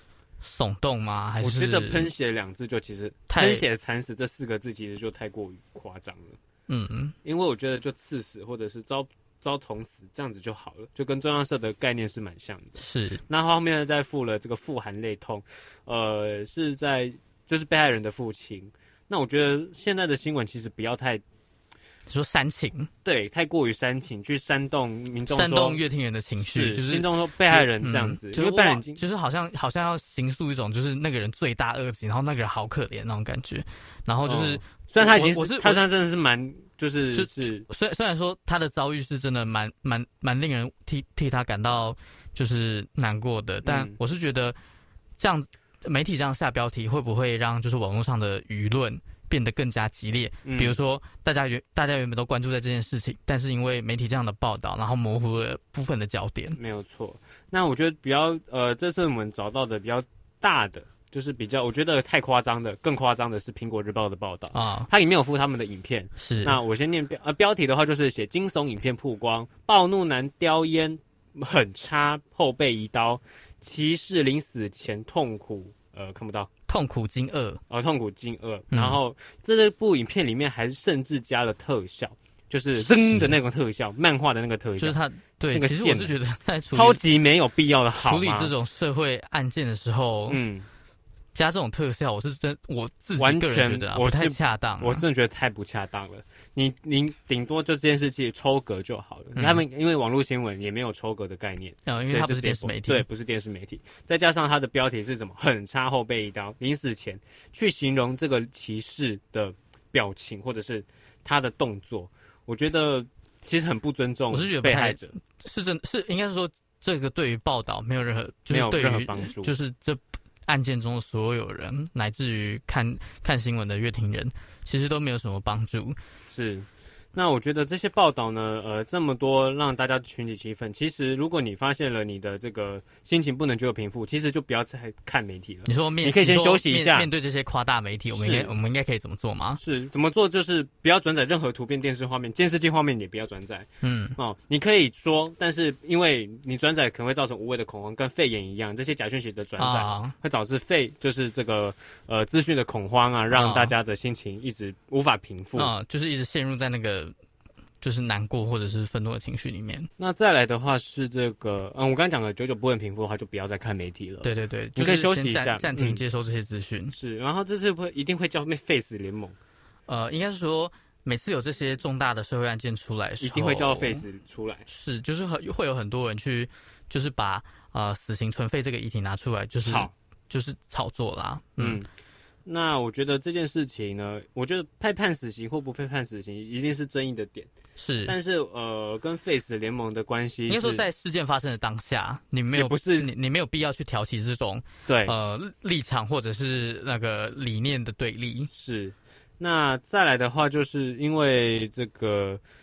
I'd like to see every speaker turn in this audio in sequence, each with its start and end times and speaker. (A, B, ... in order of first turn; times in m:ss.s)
0:00.4-0:02.1 A
0:01.4-0:06.4 B
0:03.3-0:03.6 A
0:06.7-0:07.1 A
0:07.2-0:21.2 B
0:12.8-0:13.2 A
0:22.1-0:22.9 A
0:23.0-0:25.8 B
0:25.3-0:35.8 A
0:26.4-0:29.0 B
0:34.2-0:37.7 B
0:37.1-0:44.6 A
0:43.6-0:44.0 B
0:45.2-0:56.6 A
0:50.4-0:50.8 B
0:56.6-1:16.5 B
1:04.5-1:04.9 A
1:06.2-1:06.6 A
1:16.7-1:17.6 A
1:17.7-1:25.0 B
1:18.7-1:19.0 A
1:22.8-1:23.4 A
1:24.8-1:27.0 A
1:25.5-1:26.1 B
1:26.7-1:28.5 B
1:28.0-1:30.4 A
1:30.3-1:30.7 B
1:31.4-1:35.0 A
1:33.2-1:55.1 B
1:39.4-1:39.6 A
1:41.9-1:43.1 A
1:54.3-2:06.0 A
1:58.5-1:59.5 B
2:06.3-2:17.1 B
2:15.7-2:19.6 A
2:18.1-2:18.5 B
2:19.6-2:35.7 B
2:23.8-2:24.2 A
2:29.6-2:30.2 A
2:33.3-2:33.8 A
2:35.6-2:37.1 A
2:37.8-2:39.9 A
2:40.0-2:46.0 B
2:44.2-2:47.0 A
2:46.9-2:49.4 B
2:49.9-2:54.0 A
2:53.2-2:54.7 B
2:54.7-3:01.8 A
2:59.6-2:59.9 B
3:01.6-3:01.9 B
3:02.4-3:07.5 B
3:07.8-3:08.1 A
3:08.1-3:10.9 B
3:10.5-3:18.5 A
3:12.5-3:13.1 B
3:14.9-3:15.1 B
3:18.5-3:22.4 B